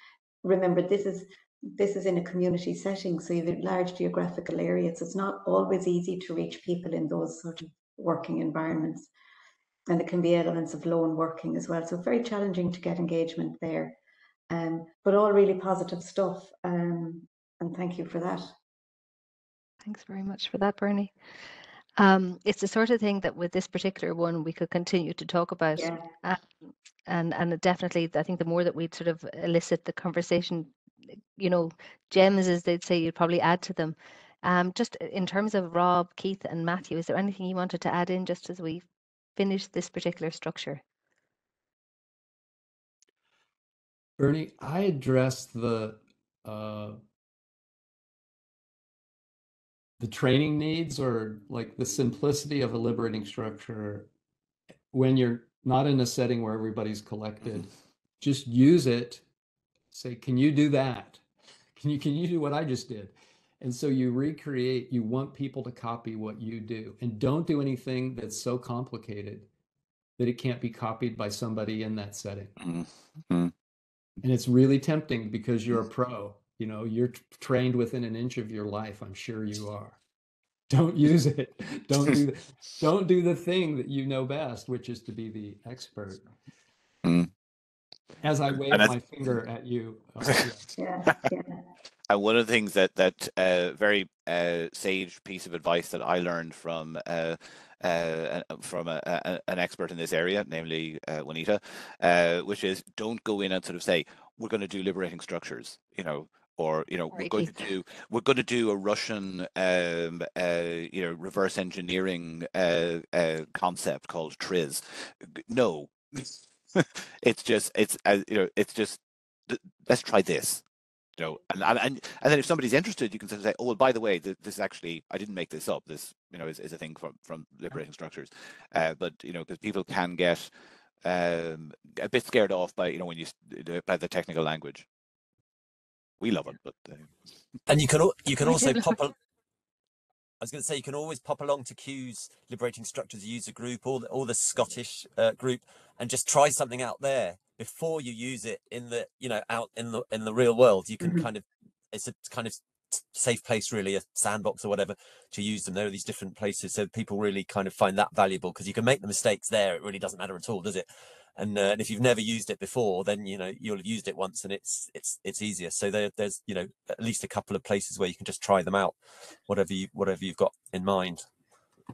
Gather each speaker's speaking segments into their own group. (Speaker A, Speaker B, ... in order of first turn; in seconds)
Speaker A: 0.4-9.1, 9.9-14.0, 14.5-18.5, 25.8-26.1, 90.8-91.6, 151.0-151.3
Speaker B: 19.8-21.1, 22.0-26.5, 27.1-30.7, 31.4-38.8, 39.4-40.8, 107.1-107.6, 138.4-138.9
Speaker C: 44.2-47.0, 50.0-54.1, 54.9-57.7, 58.2-59.2, 59.9-61.2, 61.8-69.5, 70.2-72.5, 74.2-80.0, 80.7-86.3, 88.2-90.7
Speaker D: 72.6-73.5, 87.0-87.3, 92.1-120.6, 121.2-130.5, 131.0-134.8, 136.2-137.1
Speaker E: 137.7-139.2, 140.4-171.2